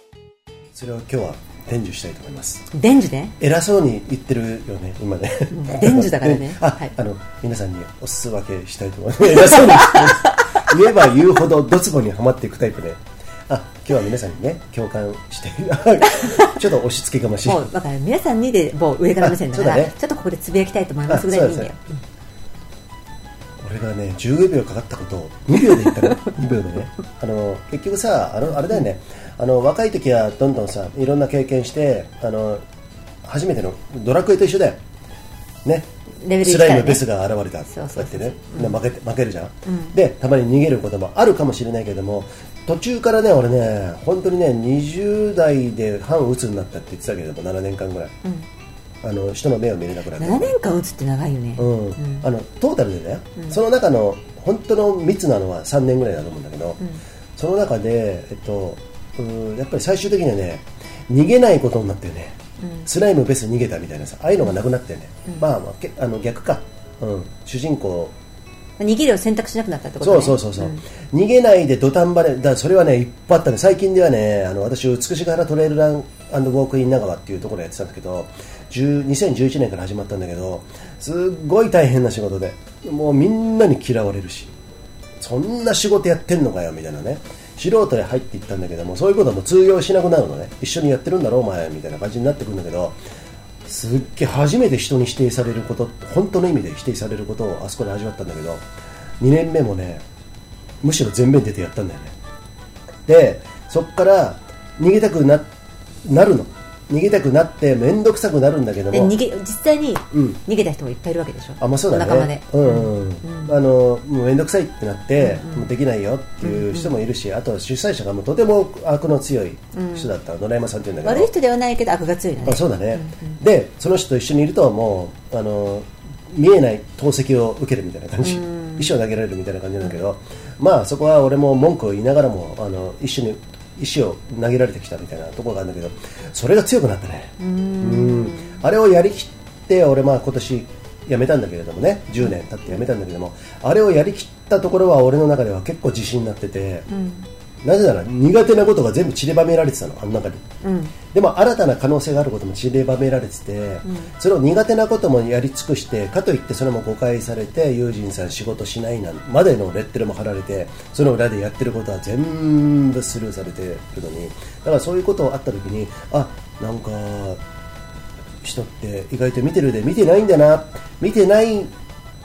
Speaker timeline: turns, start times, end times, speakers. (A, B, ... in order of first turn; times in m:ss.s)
0:00.8-0:02.7 A
0:02.7-0:03.4 B
0:03.4-0:17.7 A
0:05.5-0:06.9 B
0:09.4-0:10.4 B
0:16.1-0:16.5 B
0:17.4-0:21.8 B
0:19.2-0:20.0 A
0:21.1-0:21.7 A
0:23.6-0:32.6 A
0:33.2-0:34.8 A
0:35.6-0:35.9 A
0:36.2-0:37.1 B
0:36.4-0:48.1 A
0:37.7-0:38.8 B
0:39.7-0:39.9 B
0:49.0-0:50.5 A
0:50.2-0:52.3 B
0:51.6-0:56.8 A
0:57.4-1:08.2 A
1:02.6-1:02.9 B
1:08.8-1:10.8 B
1:10.0-1:24.5 A
1:25.2-1:33.0 A
1:33.6-1:38.7 A
1:39.2-1:40.0 A
1:40.8-1:42.2 A
1:43.1-1:45.5 A
1:46.0-1:49.2 A
1:48.9-1:53.6 B
1:50.1-1:50.4 A
1:51.6-2:01.3 A
1:55.2-1:55.7 B
1:56.4-1:56.9 B
1:59.7-2:00.1 B
2:01.0-2:03.4 B
2:02.4-2:26.9 A
2:08.2-2:08.9 B
2:17.4-2:18.6 B
2:26.9-2:27.3 B
2:27.6-2:30.4 A
2:30.6-2:30.9 B
2:31.1-2:47.4 A
2:33.8-2:34.1 B
2:48.4-2:51.7 A